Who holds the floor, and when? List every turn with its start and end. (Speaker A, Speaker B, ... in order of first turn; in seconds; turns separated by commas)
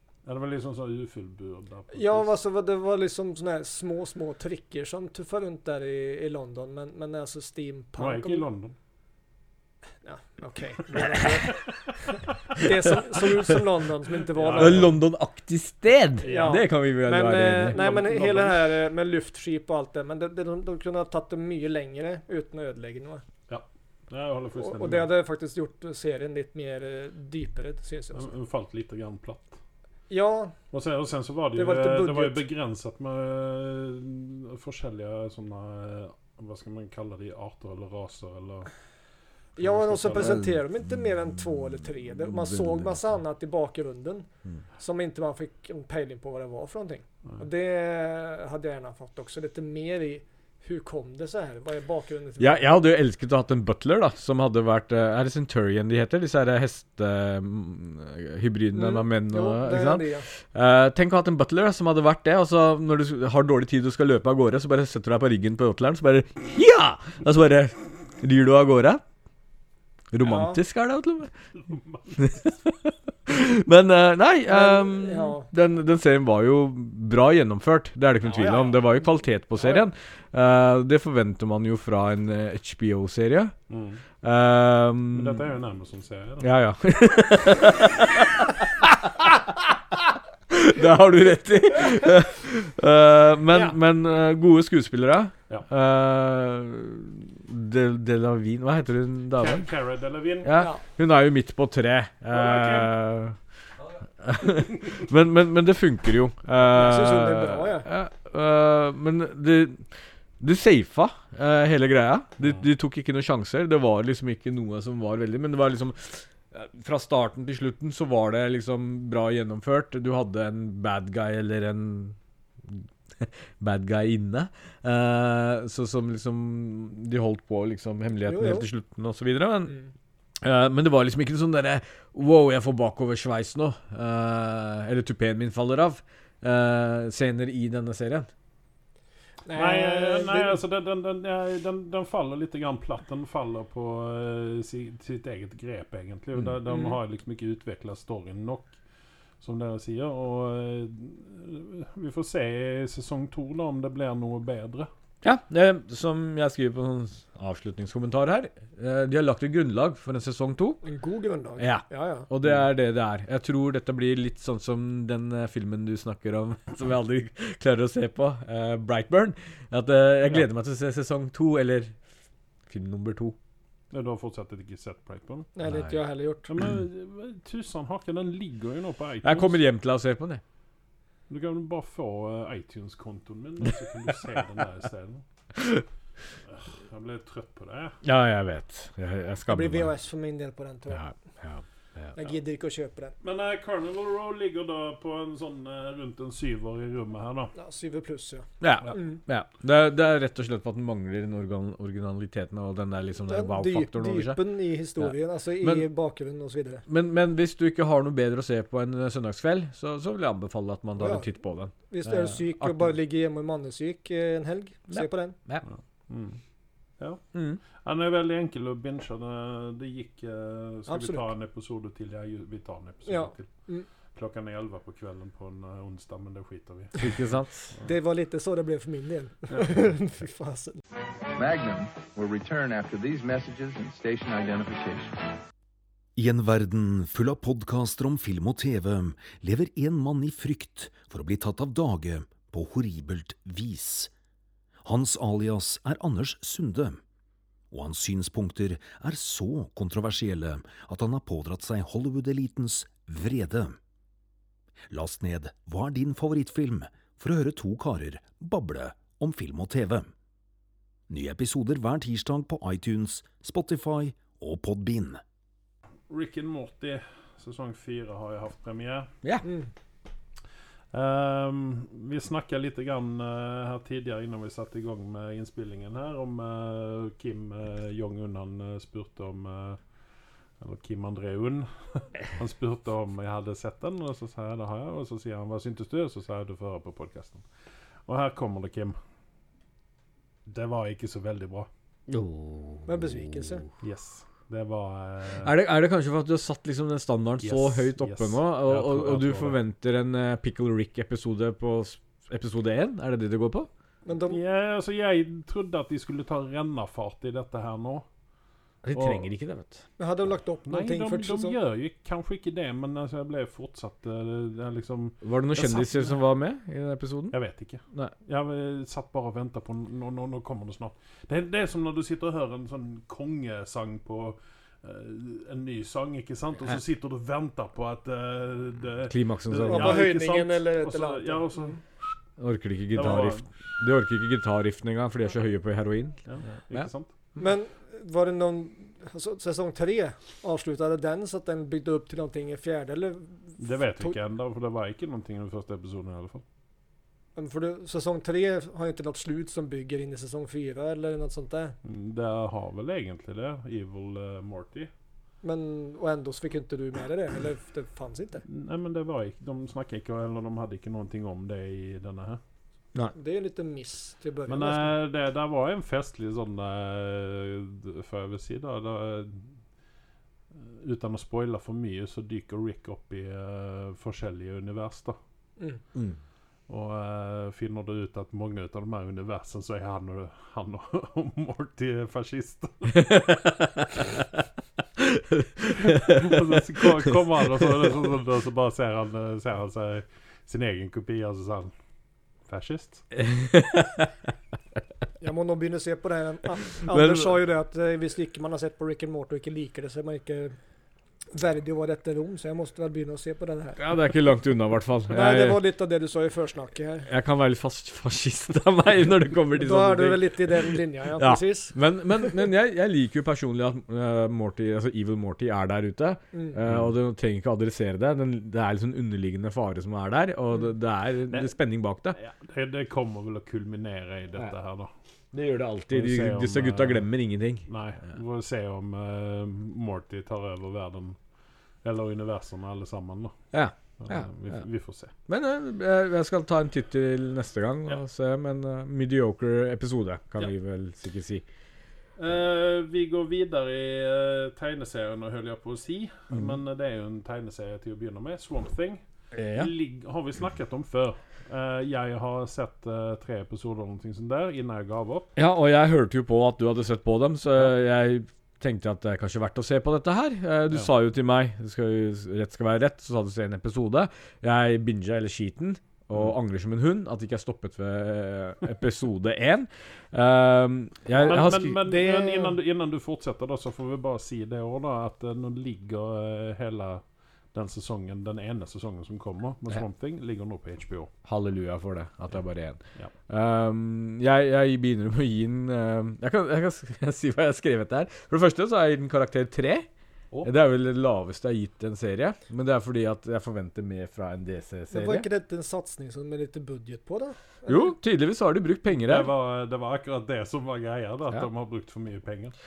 Speaker A: 0.2-2.3, Speaker B: 1.9-8.5, Speaker A: 8.0-8.8, Speaker B: 10.0-14.9, Speaker C: 12.6-13.5, Speaker A: 14.3-14.9, Speaker C: 14.5-17.8, Speaker B: 16.2-23.2, Speaker A: 16.2-16.6, Speaker A: 17.7-18.6, Speaker A: 23.5-25.1, Speaker B: 24.6-28.3, Speaker A: 28.1-29.6, Speaker B: 30.1-30.5, Speaker A: 30.7-38.7, Speaker B: 31.5-32.4, Speaker B: 39.6-44.3, Speaker A: 39.6-40.4, Speaker C: 40.2-40.6, Speaker C: 42.3-42.9, Speaker B: 44.8-52.7, Speaker C: 52.4-69.0, Speaker B: 58.7-60.3, Speaker C: 70.1-71.3, Speaker B: 70.2-70.6, Speaker A: 71.7-72.2, Speaker C: 72.2-83.5, Speaker B: 74.5-75.5, Speaker B: 78.3-78.8, Speaker B: 79.6-79.8, Speaker A: 83.7-84.0, Speaker C: 84.2-85.4, Speaker A: 85.1-86.5, Speaker C: 86.4-99.7, Speaker A: 99.4-100.6, Speaker C: 100.4-103.4, Speaker A: 102.3-102.9, Speaker C: 104.2-109.9, Speaker B: 106.7-107.9, Speaker C: 110.4-129.7, Speaker B: 128.2-128.7, Speaker C: 130.4-138.3, Speaker B: 139.4-140.6, Speaker A: 139.5-148.7, Speaker A: 149.4-154.9, Speaker C: 155.2-160.8, Speaker B: 160.8-162.3, Speaker C: 161.6-172.0, Speaker C: 172.7-173.3, Speaker A: 173.9-175.5, Speaker B: 175.6-176.5, Speaker C: 175.6-175.9, Speaker A: 176.5-179.6, Speaker C: 179.2-180.4, Speaker A: 181.3-185.2, Speaker C: 185.6-185.8, Speaker A: 186.5-188.0, Speaker C: 188.0-189.9, Speaker B: 189.5-191.1, Speaker C: 190.9-192.1, Speaker B: 192.1-193.1, Speaker A: 193.2-197.5, Speaker B: 197.6-199.2, Speaker C: 198.6-204.4, Speaker B: 203.3-206.8, Speaker C: 205.0-205.8, Speaker C: 206.9-212.9, Speaker B: 211.0-211.3, Speaker B: 211.9-215.3, Speaker C: 214.9-215.6, Speaker A: 216.1-216.4, Speaker C: 217.3-217.6, Speaker A: 217.8-223.5, Speaker B: 220.9-221.2, Speaker B: 223.1-223.8, Speaker A: 224.1-227.2, Speaker C: 227.0-227.7, Speaker B: 227.8-230.8, Speaker D: 231.3-235.2, Speaker E: 236.2-244.1, Speaker E: 244.8-247.0, Speaker E: 247.7-253.8, Speaker E: 254.9-260.1, Speaker E: 261.1-265.2, Speaker A: 266.1-269.1, Speaker A: 270.9-279.8, Speaker A: 280.6-287.4, Speaker A: 288.1-288.9, Speaker A: 290.4-291.7, Speaker C: 292.1-293.6, Speaker B: 292.9-293.6, Speaker A: 293.8-295.5, Speaker C: 295.4-303.7, Speaker A: 297.4-299.6, Speaker B: 304.0-304.4, Speaker A: 304.3-308.1, Speaker C: 308.8-309.8, Speaker A: 308.9-309.3, Speaker B: 310.0-311.5, Speaker A: 310.7-316.1, Speaker C: 315.2-317.4, Speaker A: 317.3-331.8, Speaker C: 329.1-330.1, Speaker B: 329.6-331.8, Speaker C: 332.4-336.2, Speaker A: 332.9-333.4, Speaker A: 336.3-337.1, Speaker B: 337.4-344.1, Speaker A: 343.6-346.4, Speaker B: 347.4-351.8, Speaker A: 351.8-354.9, Speaker B: 355.4-358.4, Speaker A: 358.5-362.4, Speaker B: 363.1-364.9, Speaker A: 364.5-369.5, Speaker A: 370.5-375.1, Speaker A: 376.7-383.1, Speaker C: 382.9-383.9, Speaker C: 385.0-387.1, Speaker A: 385.8-391.7, Speaker A: 392.5-393.0, Speaker C: 393.2-394.1, Speaker B: 395.2-400.6, Speaker C: 396.9-397.3, Speaker B: 401.3-403.8, Speaker C: 403.8-405.6, Speaker B: 405.1-407.1, Speaker C: 407.1-422.2, Speaker B: 409.6-411.8, Speaker B: 416.3-416.6, Speaker A: 416.6-416.9, Speaker A: 422.1-424.9, Speaker C: 425.3-427.7, Speaker A: 425.9-427.1, Speaker A: 427.7-431.2, Speaker A: 431.8-433.3, Speaker C: 433.5-434.6, Speaker A: 434.0-435.1, Speaker C: 435.3-441.4, Speaker A: 442.2-449.0, Speaker C: 449.3-449.7, Speaker A: 449.5-455.3, Speaker C: 455.4-471.8, Speaker B: 471.2-472.6, Speaker A: 471.2-477.0, Speaker A: 477.5-481.1, Speaker C: 481.2-489.9, Speaker C: 490.4-495.2, Speaker B: 494.9-497.9, Speaker C: 497.7-499.3, Speaker A: 499.0-502.5